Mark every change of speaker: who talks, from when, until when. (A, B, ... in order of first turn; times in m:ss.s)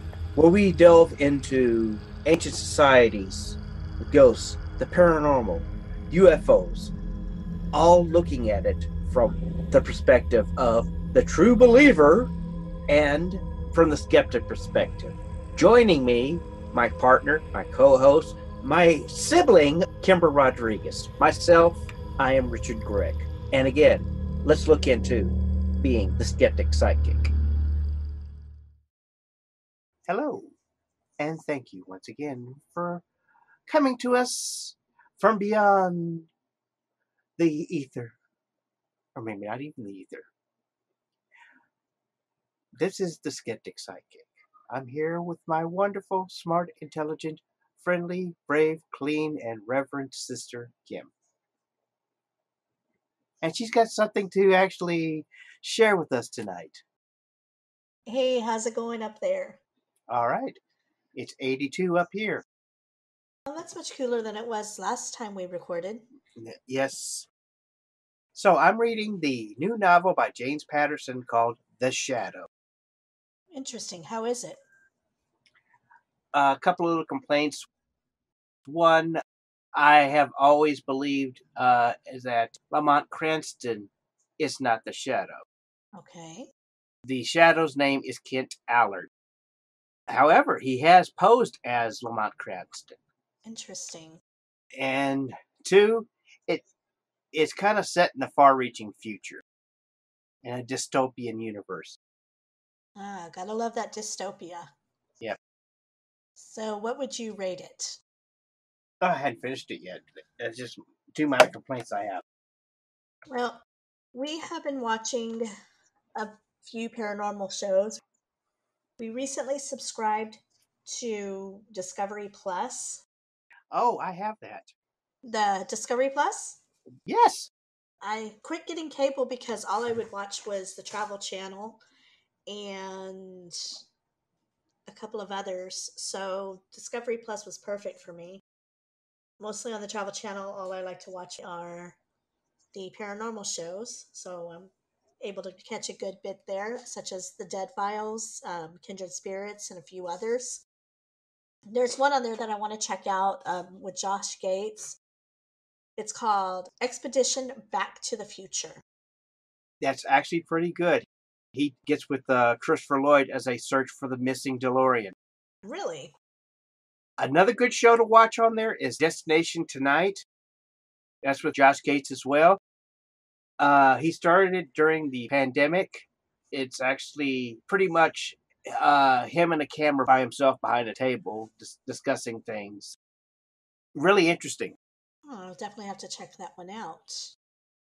0:00.4-0:06.9 A
0:07.7-0:12.3 A
0:12.9-0:27.3 A
0:30.1-0:30.5 A
0:31.2-0:33.0 A
0:33.7-0:36.3 A
0:37.4-0:38.1 A
0:39.2-0:40.3 A
0:42.7-0:51.1 A
0:53.4-0:56.8 A
0:58.1-0:59.6 B
1:00.1-1:00.6 A
1:01.1-1:02.4 A
1:03.5-1:06.0 B
1:06.4-1:07.3 A
1:08.3-1:12.5 A
1:13.5-1:14.6 B
1:16.3-1:17.6 A
1:18.6-1:19.2 A
1:19.7-1:25.4 A
1:25.9-1:26.5 B
1:27.0-1:29.1 A
1:30.1-1:33.0 A
1:33.4-1:34.2 B
1:34.8-1:36.6 A
1:37.3-1:39.4 A
1:40.4-1:42.0 A
1:43.0-1:44.7 B
1:46.4-1:48.0 B
1:49.0-1:52.2 A
1:53.3-1:53.6 B
1:54.1-1:55.5 B
1:56.2-1:58.0 B
1:59.0-2:03.0 B
2:03.7-2:04.7 A
2:05.2-2:06.6 B
2:07.1-2:07.5 A
2:08.0-2:11.8 B
2:12.5-2:13.8 B
2:14.9-2:18.4 B
2:19.4-2:22.0 B
2:22.7-2:30.6 B
2:31.7-2:35.0 B
2:36.0-2:38.8 B
2:39.8-2:45.1 A
2:45.6-2:46.1 B
2:47.2-2:50.2 A
2:51.2-2:52.6 A
2:53.6-3:03.0 A
3:03.9-3:04.8 A
3:05.2-3:07.3 B